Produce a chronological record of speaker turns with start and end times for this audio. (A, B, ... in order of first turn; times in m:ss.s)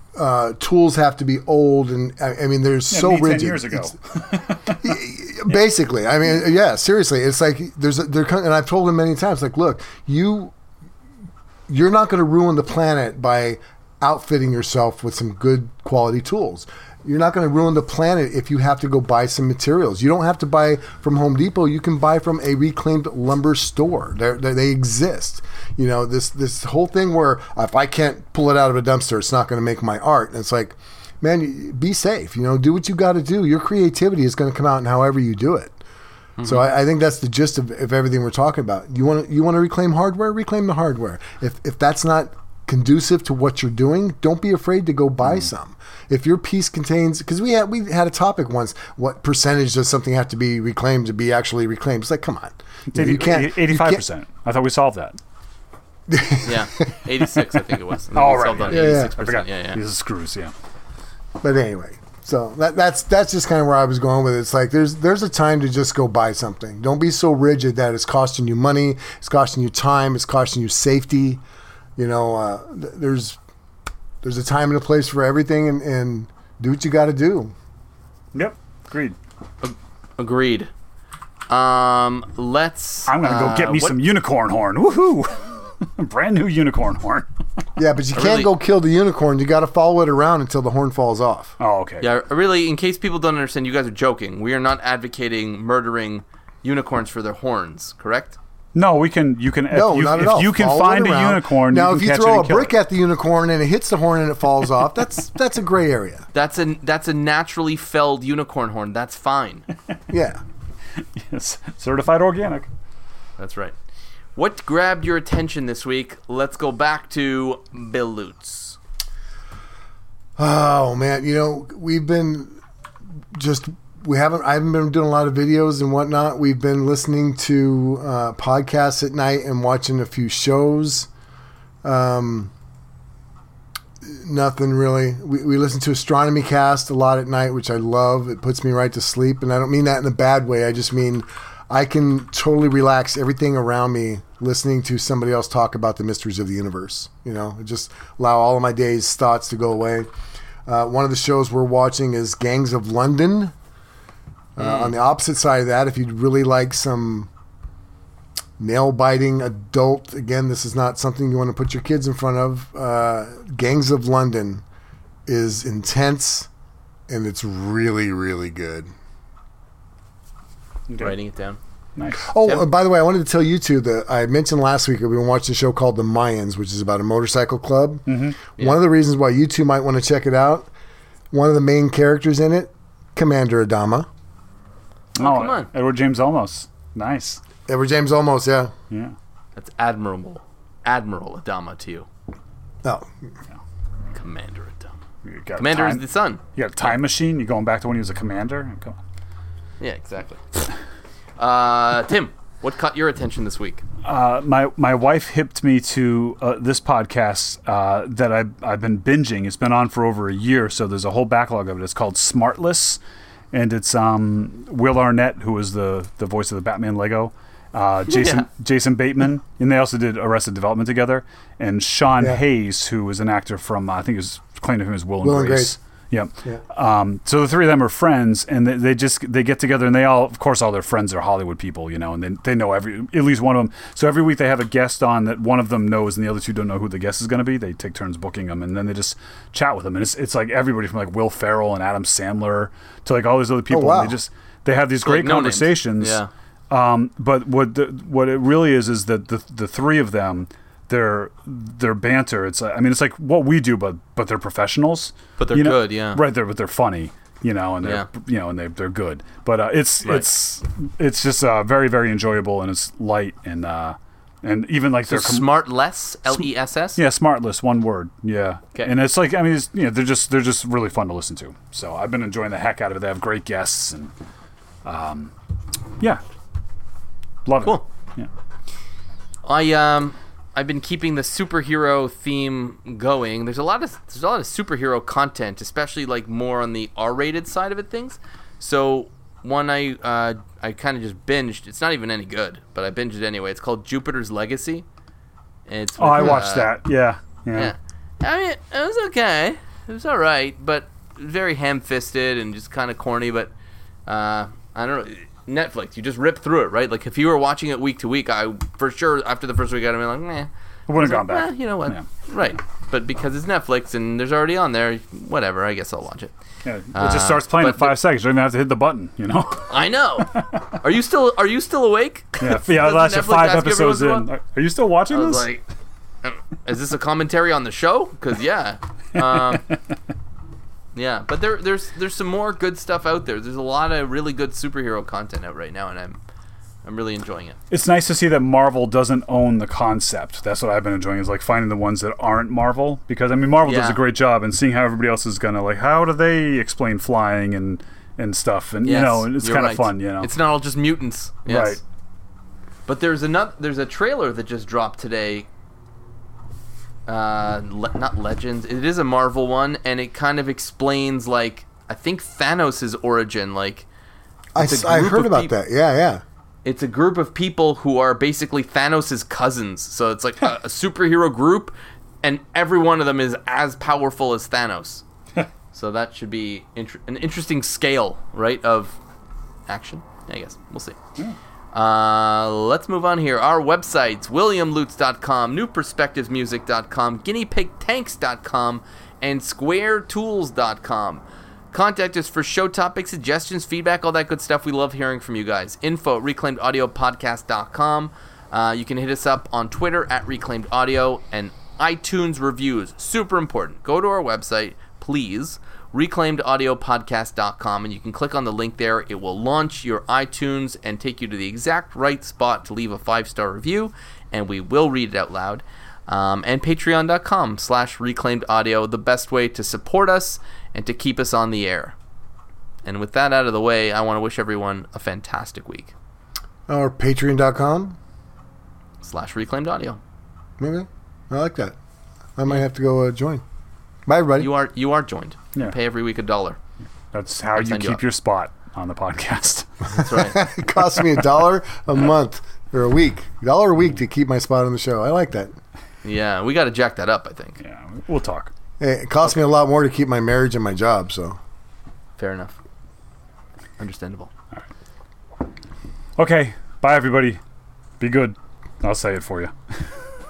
0:00.2-0:04.0 A
0:02.9-0:05.0 B
0:04.8-0:10.5 A
0:11.7-0:35.8 A
0:36.4-0:36.6 C
0:36.4-0:54.0 A
0:52.9-0:55.2 B
0:56.1-0:56.9 A
0:56.4-0:59.8 C
0:58.1-1:00.5 B
0:58.7-0:59.1 A
1:01.4-1:11.4 A
1:12.0-1:13.4 A
1:14.2-1:17.5 A
1:18.3-1:19.2 B
1:19.6-1:20.7 C
1:21.5-1:24.0 C
1:23.1-1:27.3 B
1:27.8-1:31.5 A
1:28.1-1:28.5 C
1:31.6-1:32.1 B
1:32.0-1:38.4 C
1:38.7-1:42.7 B
1:39.7-1:46.2 A
1:46.3-1:49.7 C
1:50.1-1:50.4 A
1:51.0-1:52.7 B
1:53.4-1:53.7 C
1:54.3-1:58.8 C
2:00.4-2:02.6 A
2:03.3-2:11.1 A
2:11.8-2:12.5 A
2:14.0-2:30.1 A
2:30.6-2:33.5 A
2:34.6-2:37.3 A
2:34.6-2:34.9 C
2:38.6-2:44.6 A
2:45.2-2:46.5 A
2:47.1-2:48.9 A
2:50.9-2:51.1 B
2:51.0-2:51.6 C
2:52.0-2:52.3 B
2:52.2-2:58.1 A
2:58.1-2:58.4 B
2:58.6-3:00.7 A
3:01.3-3:04.1 A
3:05.2-3:07.4 B
3:05.2-3:05.7 C
3:07.7-3:08.7 A
3:08.9-3:09.1 B
3:09.6-3:12.1 C
3:12.8-3:13.1 A
3:14.1-3:15.0 C
3:15.2-3:19.0 B
3:15.6-3:16.4 C
3:19.8-3:20.6 C
3:21.4-3:23.8 C
3:24.0-3:33.0 B
3:33.5-4:25.5 B
3:38.1-3:38.4 C
3:45.2-3:45.7 A
4:03.7-4:04.2 A
4:05.0-4:06.3 C
4:15.4-4:16.2 C
4:20.0-4:20.3 C
4:25.1-4:27.0 C
4:27.0-4:34.1 B
4:34.8-4:35.3 B
4:37.4-4:38.3 B
4:39.4-4:54.8 C
4:55.7-4:56.7 C
4:56.0-4:57.7 B
4:57.5-5:03.5 C
5:04.1-5:16.3 C
5:10.9-5:12.0 B
5:16.6-5:20.7 B
5:16.9-5:17.9 C
5:19.7-5:24.3 C
5:22.4-5:25.5 B
5:25.1-5:25.6 C
5:26.2-5:29.6 C
5:30.9-5:36.2 C
5:36.8-5:37.6 C
5:37.7-5:50.3 B
5:43.6-5:44.0 C
5:48.8-5:51.8 C
5:51.5-5:51.8 B
5:52.9-5:55.5 C
5:57.1-6:03.9 C
6:04.5-6:06.2 A
6:04.6-6:05.5 C
6:06.6-6:15.0 C
6:15.7-6:19.0 C
6:19.7-6:21.0 C
6:21.7-7:02.0 C
7:02.8-7:05.9 C
7:06.7-7:08.0 A
7:09.0-7:10.0 C
7:10.6-7:11.8 A
7:12.4-7:13.4 A
7:14.1-7:14.5 A
7:14.4-7:16.6 C
7:17.1-7:20.0 B
7:17.6-7:18.0 C
7:19.9-7:20.4 C
7:20.0-7:25.6 A
7:26.0-7:27.6 C
7:27.6-7:28.5 B
7:28.8-7:31.4 A
7:32.2-7:32.6 C
7:33.8-7:34.3 C
7:36.2-7:37.4 B
7:38.0-7:39.9 B